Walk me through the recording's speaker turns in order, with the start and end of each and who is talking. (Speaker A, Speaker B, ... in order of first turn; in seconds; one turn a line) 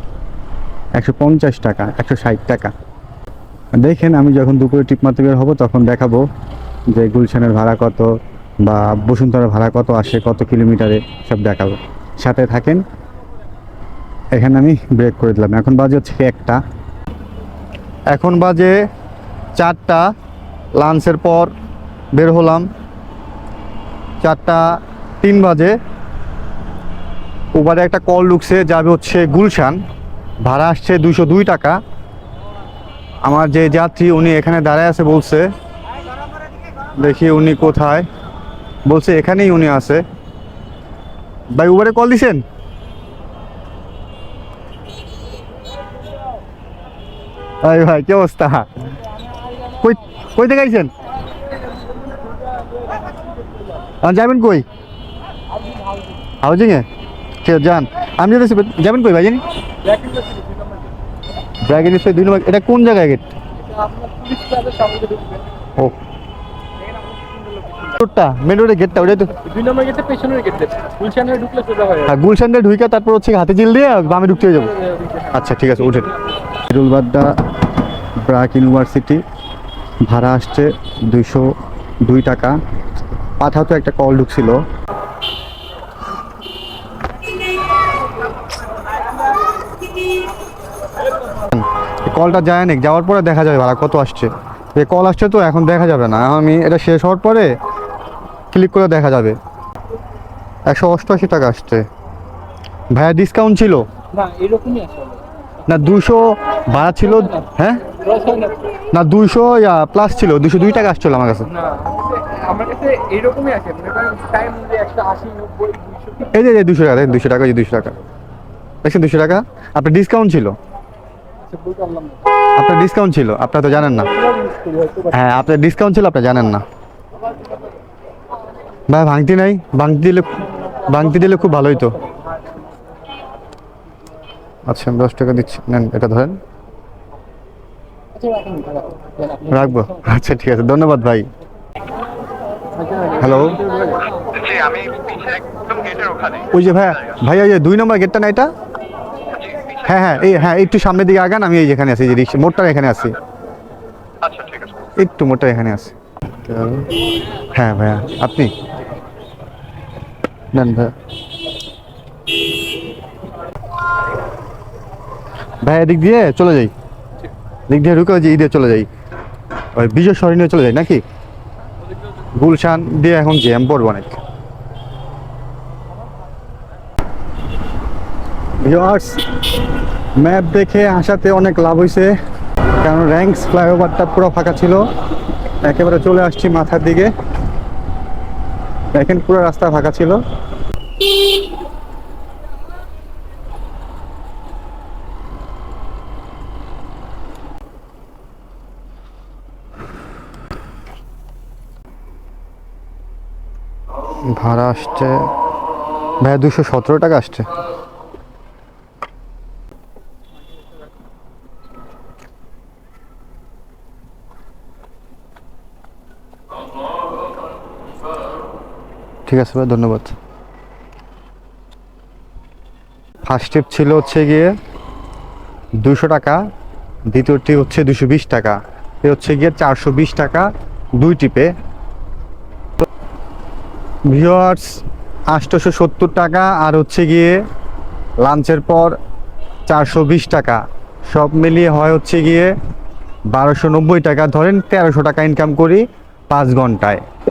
Speaker A: 1.0-2.7
Speaker A: 3.8-6.2
Speaker A: 6.9-8.1
Speaker A: 8.6-12.8
Speaker A: 14.3-16.6
Speaker A: 18.1-18.7
Speaker A: 19.6-20.1
Speaker A: 20.8-21.5
Speaker A: 22.1-22.7
Speaker A: 24.2-25.8
Speaker A: 27.5-29.8
Speaker A: 30.4-31.8
Speaker A: 33.2-35.5
Speaker A: 37.0-38.0
Speaker A: 38.9-40.0
Speaker A: 41.5-42.4
Speaker A: 47.6-48.7
Speaker A: 49.8-50.9
Speaker B: 52.8-53.2
Speaker A: 54.0-54.6
Speaker A: 56.4-56.8
Speaker A: 57.4-59.4
Speaker B: 59.8-60.7
Speaker A: 61.6-63.2
Speaker B: 63.6-65.5
Speaker B: 67.0-67.9
Speaker A: 67.9-69.4
Speaker B: 69.3-72.1
Speaker A: 72.0-77.3
Speaker A: 78.2-79.2
Speaker A: 80.0-81.5
Speaker A: 82.0-82.6
Speaker A: 83.4-84.6
Speaker A: 91.5-97.5
Speaker A: 98.5-99.4
Speaker A: 100.7-101.8
Speaker A: 102.9-103.8
Speaker B: 104.1-105.2
Speaker A: 105.7-107.9
Speaker B: 107.1-108.7
Speaker A: 108.9-111.5
Speaker B: 111.5-116.3
Speaker A: 116.2-118.0
Speaker A: 118.8-120.5
Speaker B: 121.5-122.2
Speaker A: 122.5-124.1
Speaker B: 124.1-125.1
Speaker A: 125.1-126.6
Speaker A: 128.9-132.0
Speaker A: 134.7-136.4
Speaker B: 138.3-138.6
Speaker A: 139.4-141.3
Speaker A: 143.1-143.7
Speaker C: 144.3-146.5
Speaker A: 146.5-148.5
Speaker A: 149.8-153.2
Speaker C: 154.2-154.7
Speaker A: 155.0-156.9
Speaker A: 157.5-158.5
Speaker A: 160.5-160.9
Speaker A: 165.6-166.7
Speaker A: 167.7-168.9
Speaker A: 169.7-171.0
Speaker A: 172.4-174.2
Speaker A: 178.6-179.2
Speaker A: 180.2-182.1
Speaker A: 182.8-184.8
Speaker A: 185.6-187.1
Speaker A: 188.9-190.2
Speaker A: 204.3-205.3
Speaker A: 206.2-207.5
Speaker A: 219.3-220.1
Speaker A: 223.2-224.5
Speaker A: 225.8-226.4
Speaker A: 227.1-231.5
Speaker A: 234.1-237.4
Speaker A: 238.2-239.0
Speaker A: 239.7-242.5
Speaker A: 243.3-247.0